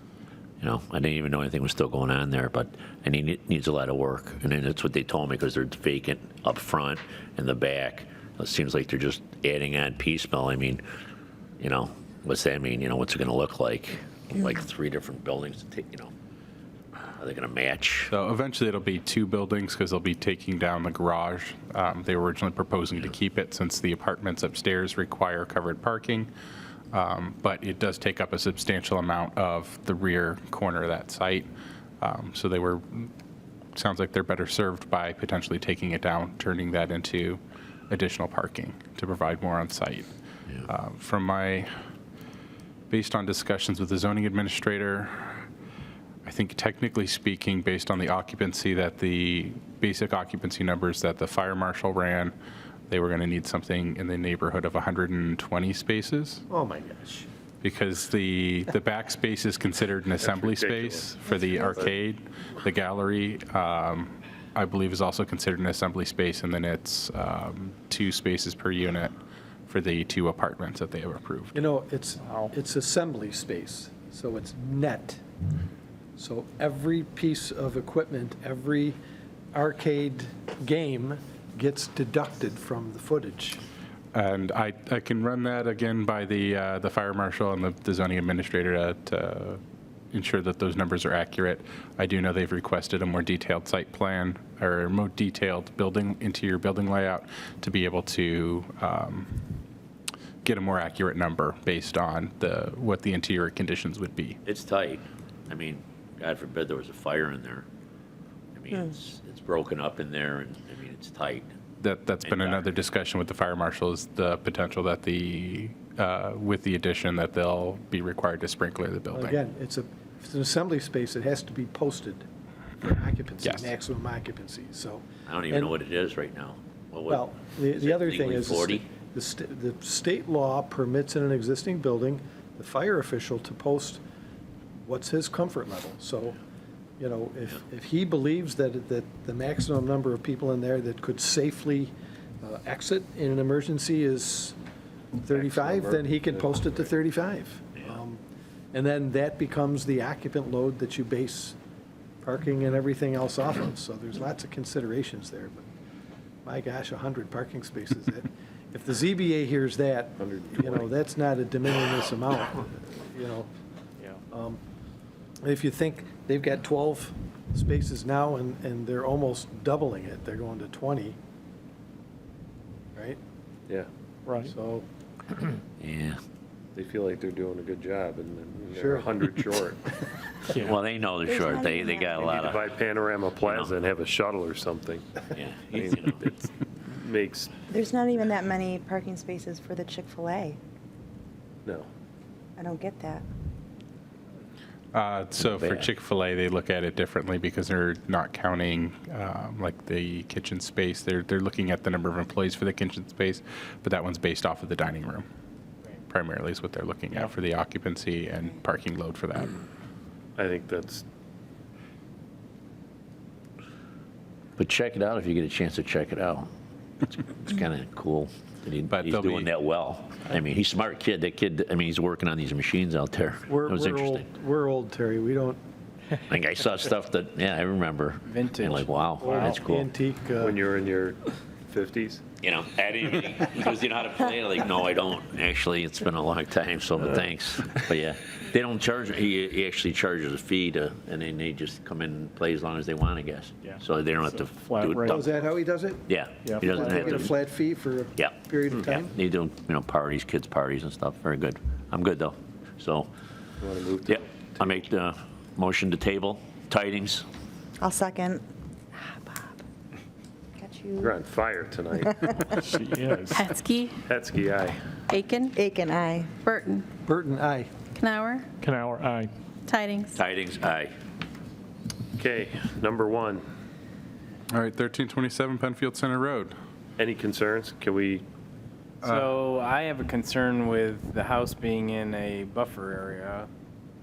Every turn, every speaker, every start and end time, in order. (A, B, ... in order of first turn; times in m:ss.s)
0:00.6-0:10.8 A
0:11.6-0:16.1 A
0:17.2-0:18.1 A
0:18.1-0:26.3 B
0:26.9-0:31.5 B
0:32.0-0:33.1 B
0:33.7-0:40.1 B
0:40.7-0:41.7 B
0:42.9-0:45.5 B
0:46.2-0:52.3 B
0:52.9-0:56.4 B
0:56.5-0:57.2 C
0:57.6-1:09.1 B
1:00.2-1:01.9 D
1:01.3-1:01.9 E
1:09.7-1:11.6 B
1:11.5-1:15.2 C
1:12.2-1:12.5 F
1:16.2-1:19.0 C
1:19.5-1:23.6 C
1:24.1-1:29.6 B
1:30.1-1:39.5 B
1:40.4-1:44.4 B
1:44.4-1:47.6 A
1:48.5-1:51.5 A
1:51.8-1:59.4 B
1:52.2-1:52.7 A
1:59.1-2:02.2 C
2:02.8-2:05.7 C
2:03.4-2:03.7 A
2:05.3-2:08.9 A
2:07.1-2:14.0 C
2:14.8-2:16.4 C
2:17.0-2:24.6 C
2:25.2-2:28.2 C
2:25.3-2:26.9 D
2:28.7-2:31.6 C
2:32.2-2:35.6 C
2:36.4-2:43.5 C
2:40.2-2:40.9 D
2:44.3-2:44.6 C
2:45.4-2:51.2 C
2:54.2-2:54.5 F
2:54.4-2:54.8 C
2:55.8-2:56.2 A
2:56.7-2:59.9 D
2:58.8-2:59.4 C
3:00.5-3:02.7 A
3:01.2-3:02.2 E
3:02.1-3:07.5 D
3:03.5-3:03.7 A
3:05.3-3:06.3 A
3:07.7-3:10.6 E
3:12.6-3:13.2 E
3:14.9-3:25.2 B
3:15.4-3:15.9 A
3:26.1-3:29.6 B
3:30.4-3:31.0 D
3:34.6-3:36.5 A
3:37.0-3:44.3 A
3:38.9-3:39.5 B
3:43.5-3:45.6 C
3:46.3-3:49.9 A
3:48.2-3:49.5 G
3:49.2-3:50.6 C
3:50.4-3:52.2 D
3:52.4-4:05.3 A
4:04.4-4:05.3 F
4:05.1-4:09.1 C
4:06.1-4:07.4 A
4:06.4-4:07.2 F
4:08.2-4:13.1 A
4:13.6-4:14.8 D
4:14.0-4:17.2 A
4:17.8-4:18.4 E
4:18.9-4:19.6 E
4:20.6-4:21.1 E
4:21.0-4:22.7 D
4:22.1-4:22.5 E
4:22.6-4:23.3 F
4:23.3-4:24.0 H
4:24.0-4:24.9 D
4:25.1-4:25.6 H
4:25.5-4:26.4 E
4:26.4-4:26.9 H
4:27.0-4:27.7 C
4:27.9-4:28.5 H
4:28.6-4:29.3 F
4:29.6-4:30.2 H
4:30.1-4:30.9 A
4:32.2-4:33.4 D
4:34.5-4:36.5 B
4:37.0-4:38.2 D
4:39.0-4:39.3 B
4:39.0-4:43.5 G